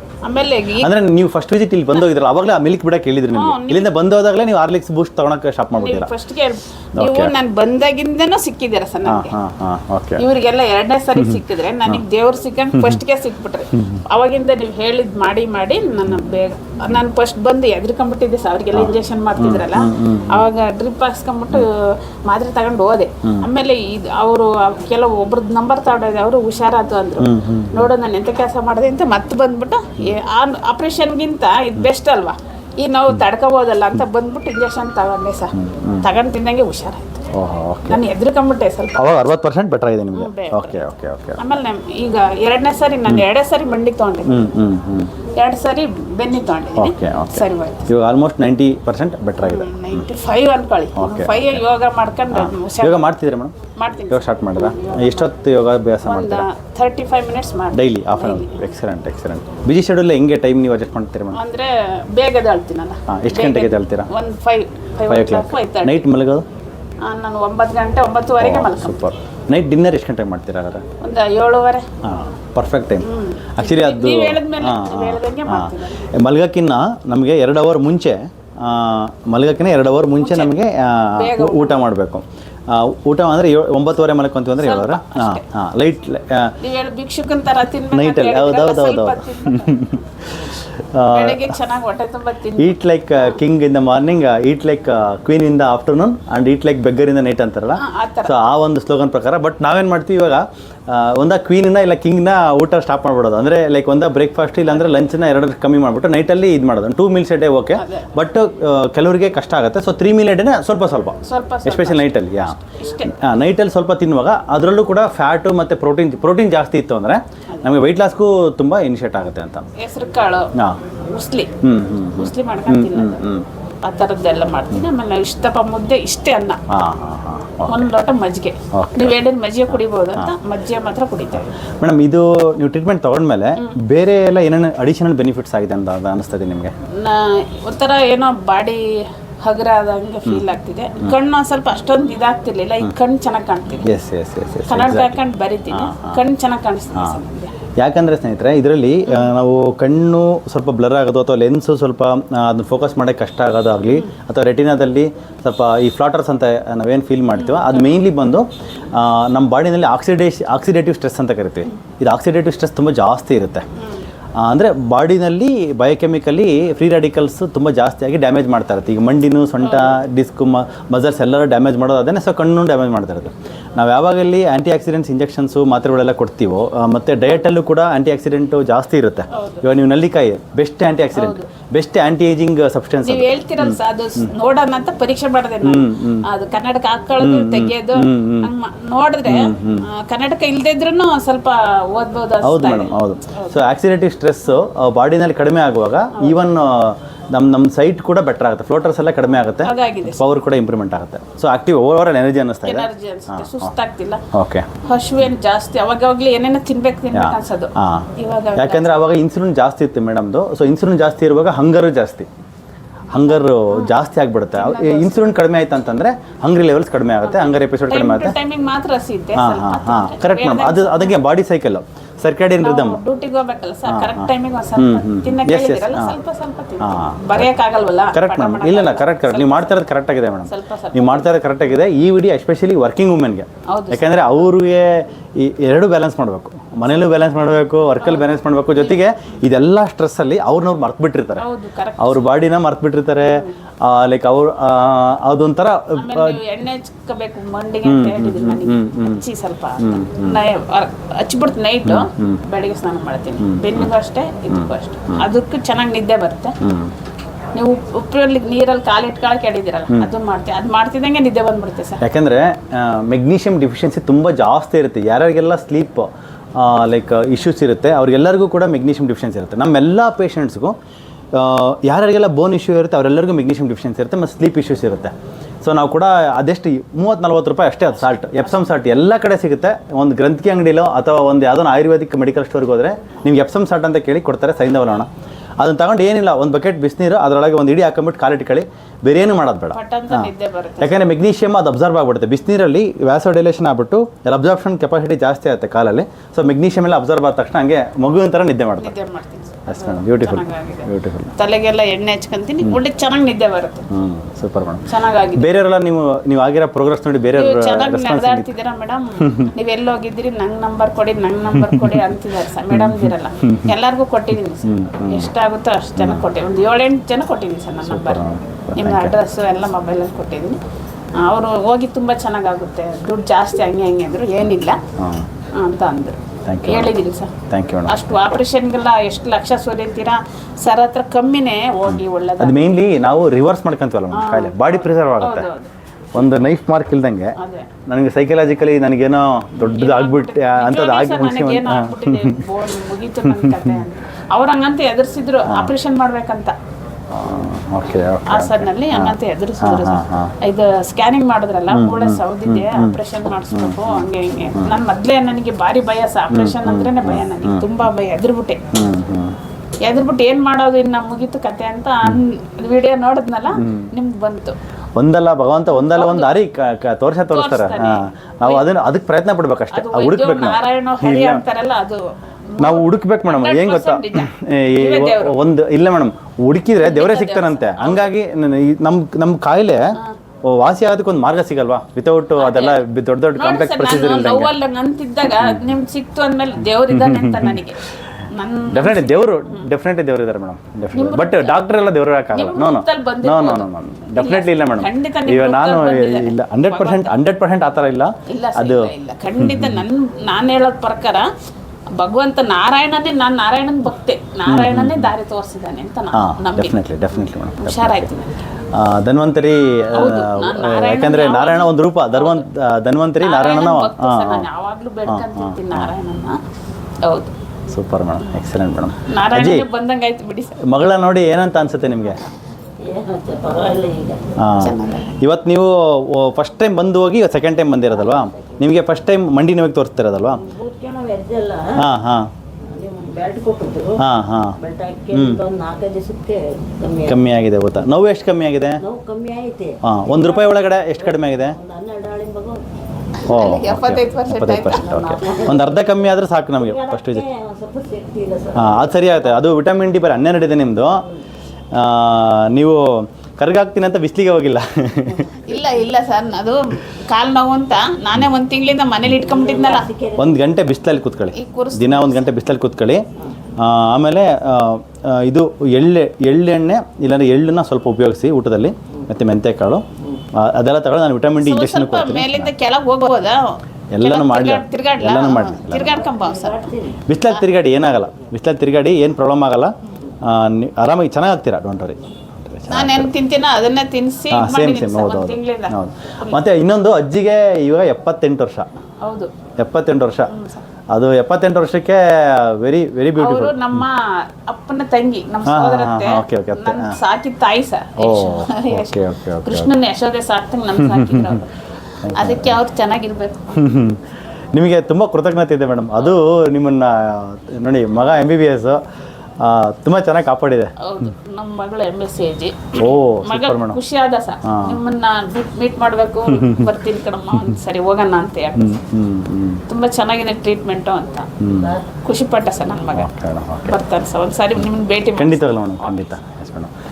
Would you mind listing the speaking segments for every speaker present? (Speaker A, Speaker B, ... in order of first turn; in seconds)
Speaker A: 0.2-0.9, 3.3-3.9, 5.8-9.4, 10.2-37.2, 37.9-39.0, 40.1-40.8, 41.4-44.4, 45.4-47.9, 49.4-53.1, 53.8-55.3, 56.0-58.6, 61.3-66.0, 67.0-69.0, 71.0-71.9, 73.0-76.1, 80.2-80.6, 81.1-81.9, 84.6-85.4, 86.6-89.8, 91.1-93.4, 97.8-98.4, 107.8-108.1, 111.2-113.1, 119.8-121.5, 122.2-123.2, 123.8-126.6, 127.7-131.5, 136.9-143.9, 144.7-147.5, 157.3-158.0, 169.6-170.0, 179.3-179.6, 181.2-181.4, 183.1-193.7, 196.1-196.4, 199.6-200.3, 202.7-204.2, 204.8-209.0, 213.1-213.9, 214.5-215.2, 217.2-221.2, 222.6-229.8, 230.5-231.3, 233.7-234.2, 238.0-239.0, 241.4-242.3, 243.2-243.5, 246.0-256.6, 257.6-262.0, 278.2-278.6, 289.7-291.0, 298.8-303.9, 304.9-305.5, 307.4-318.2, 318.8-320.6, 321.2-324.8, 325.5-327.3, 327.9-332.6, 334.1-335.7, 337.4-337.7, 339.6-346.6, 348.3-358.7, 359.8-364.6, 365.7-366.3, 367.3-368.7, 369.7-375.4, 376.8-378.1, 382.4-382.8, 383.4-389.7, 390.9-391.6, 392.3-397.2, 398.3-401.3, 401.9-406.8, 407.6-408.4, 409.9-412.5, 413.2-416.4, 417.1-417.3, 419.1-420.6, 422.0-422.3, 424.6-425.1, 443.2-445.0, 455.4-459.9, 461.3-462.3, 471.4-476.7, 482.7-486.4, 489.0-489.4, 490.3-490.6, 493.2-501.5, 502.1-503.4, 510.8-518.8, 519.7-521.3, 521.9-523.1, 523.7-526.0
Speaker B: 0.8-6.1, 7.0-7.3, 9.1-10.2, 11.2-12.0, 12.7-13.0, 13.8-14.0, 18.7-20.5, 23.2-23.5, 27.2-27.9, 35.5-36.1, 37.3-38.0, 39.0-41.5, 44.3-45.1, 46.8-50.1, 51.0-51.6, 52.3-53.5, 54.1-56.5, 57.7-61.4, 63.1-64.1, 65.1-66.5, 68.4-70.8, 72.0-86.5, 87.9-91.6, 92.6-119.7, 121.6-123.5, 126.7-127.9, 128.7-129.2, 129.7-130.3, 131.3-136.7, 143.8-145.2, 145.7-146.2, 146.9-147.2, 147.8-163.7, 164.4-184.3, 185.6-186.3, 187.2-188.5, 189.3-189.9, 192.4-203.7, 204.3-204.7, 207.1-212.3, 213.1-218.4, 219.3-223.0, 223.9-226.2, 226.8-227.6, 228.1-246.4, 247.8-249.2, 249.8-250.4, 251.8-252.4, 253.4-253.9, 254.5-255.3, 256.6-256.9, 262.0-270.8, 271.3-285.1, 285.6-299.0, 299.7-301.3, 303.9-308.5, 309.2-309.5, 311.6-312.1, 312.7-313.8, 314.6-315.3, 316.0-316.2, 317.8-319.2, 325.0-325.3, 326.5-326.9, 327.5-328.2, 331.9-335.5, 336.1-337.4, 337.9-342.6, 343.2-343.9, 345.5-345.7, 347.1-350.3, 351.7-354.8, 356.3-357.7, 358.7-359.4, 363.5-363.9, 365.0-371.4, 372.6-384.5, 385.3-385.8, 386.9-387.6, 388.7-399.8, 404.5-405.1, 406.1-408.1, 408.7-414.5, 415.1-415.9, 417.7-419.7, 420.7-422.2, 424.4-430.4, 431.8-432.3, 434.0-434.6, 435.1-435.4, 437.0-438.8, 439.8-441.6, 443.3-447.3, 448.6-451.0, 451.7-455.4, 460.2-463.1, 463.6-472.5, 473.9-476.0, 477.1-483.1, 484.3-488.7, 489.6-490.3, 490.9-493.9, 495.5-497.0, 498.0-499.7, 500.8-501.4, 502.0-502.6, 503.6-504.0, 504.5-508.8, 509.4-510.7, 512.8-513.8, 514.5-514.8, 516.3-516.7, 518.6-519.6, 521.4-521.8, 523.0-523.8, 525.2-526.7
Speaker C: 422.8-424.3, 428.0-428.6, 430.3-431.9, 432.7-434.0, 434.6-437.2, 438.8-442.6, 444.6-445.9, 446.6-449.2, 459.1-460.3, 476.0-477.0